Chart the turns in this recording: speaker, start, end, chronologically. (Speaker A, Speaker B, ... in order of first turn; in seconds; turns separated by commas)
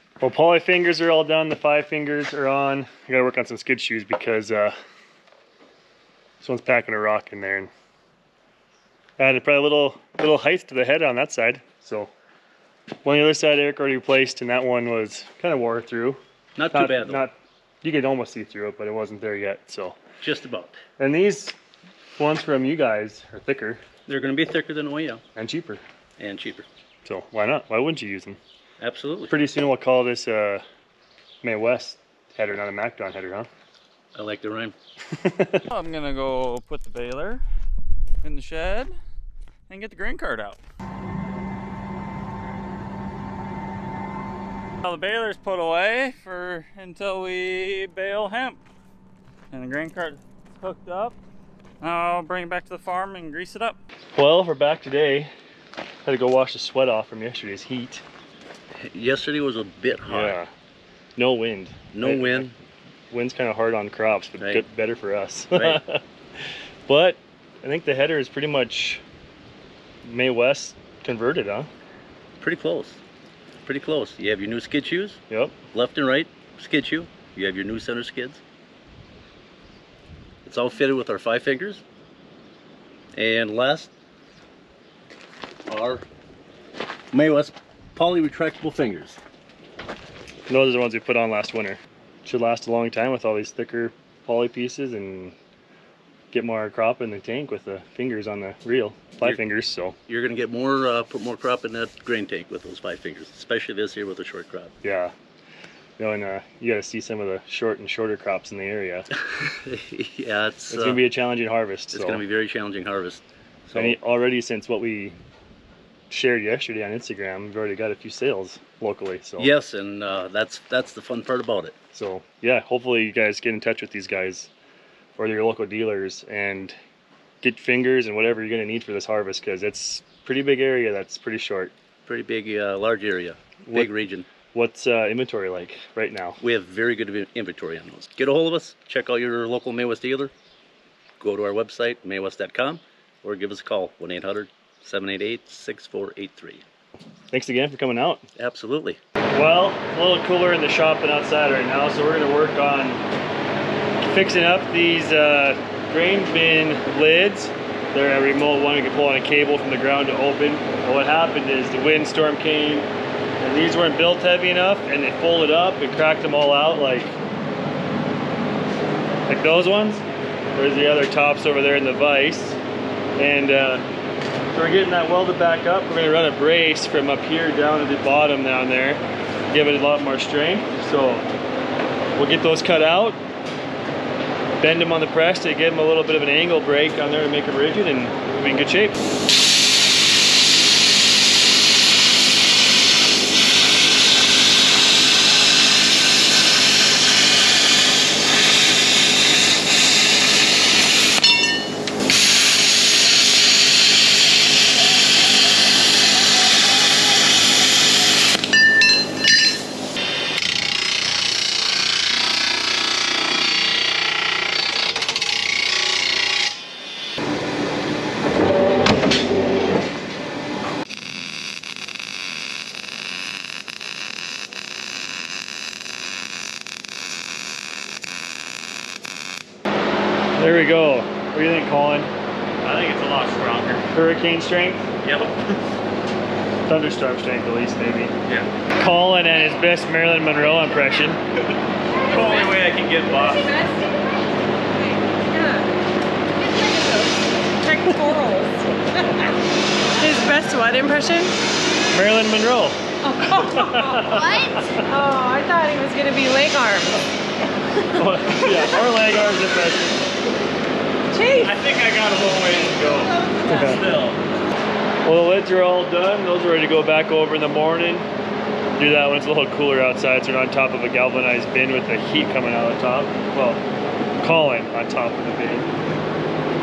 Speaker A: 0.2-4.8, Speaker A: 6.4-7.7, Speaker A: 9.2-12.1, Speaker A: 13.0-16.2, Speaker B: 16.6-17.2, Speaker A: 16.7-20.0, Speaker B: 20.2-20.8, Speaker A: 21.0-21.6, Speaker A: 22.2-23.8, Speaker B: 24.1-25.2, Speaker A: 25.4-25.8, Speaker B: 26.2-26.7, Speaker A: 27.1-28.4, Speaker B: 28.8-29.4, Speaker A: 29.3-30.6, Speaker A: 31.4-33.5, Speaker B: 34.1-34.8, Speaker A: 35.2-35.6, Speaker C: 35.7-37.4, Speaker C: 38.2-38.9, Speaker C: 39.7-40.6, Speaker C: 44.8-48.6, Speaker C: 49.5-51.2, Speaker C: 51.8-53.8, Speaker A: 54.1-55.3, Speaker A: 56.0-58.0, Speaker B: 58.7-60.4, Speaker A: 60.1-60.5, Speaker A: 61.2-62.5, Speaker B: 61.9-62.5, Speaker A: 63.1-69.0, Speaker B: 65.5-65.8, Speaker A: 70.0-71.7, Speaker B: 72.4-73.0, Speaker B: 73.6-75.2, Speaker B: 75.7-78.4, Speaker B: 80.4-81.8, Speaker B: 83.1-83.9, Speaker B: 85.7-86.0, Speaker B: 87.1-89.2, Speaker A: 90.5-95.4, Speaker A: 96.3-100.0, Speaker B: 100.1-104.7, Speaker A: 104.8-105.1, Speaker A: 106.0-109.1, Speaker B: 109.1-111.0, Speaker A: 110.7-112.2, Speaker B: 111.9-114.0, Speaker A: 113.8-115.2, Speaker A: 116.1-119.5, Speaker B: 119.4-121.8, Speaker A: 121.9-124.5, Speaker A: 125.2-126.8, Speaker A: 127.4-131.7, Speaker B: 132.1-134.3, Speaker A: 133.6-133.9, Speaker A: 134.5-136.4, Speaker B: 136.4-140.3, Speaker B: 141.2-146.6, Speaker A: 147.3-148.3, Speaker B: 148.4-149.0, Speaker A: 149.3-153.0, Speaker A: 154.0-162.9, Speaker A: 163.4-167.2, Speaker A: 169.3-172.6, Speaker A: 173.2-173.8, Speaker A: 174.5-181.3, Speaker A: 182.2-183.2, Speaker A: 184.6-189.0, Speaker A: 230.4-232.1, Speaker C: 232.6-233.9, Speaker A: 233.9-234.9, Speaker C: 235.0-235.4, Speaker A: 236.7-238.2, Speaker A: 238.8-241.2, Speaker C: 242.0-243.6, Speaker D: 242.0-242.6, Speaker D: 243.2-245.8, Speaker D: 246.3-249.4, Speaker D: 250.0-251.4, Speaker A: 251.9-252.8, Speaker D: 253.0-257.1, Speaker A: 253.3-254.8, Speaker A: 258.0-260.1, Speaker D: 261.1-261.6, Speaker C: 261.4-264.2, Speaker D: 262.9-263.8, Speaker A: 263.5-263.8, Speaker A: 265.0-268.1, Speaker A: 268.8-273.6, Speaker A: 274.2-275.7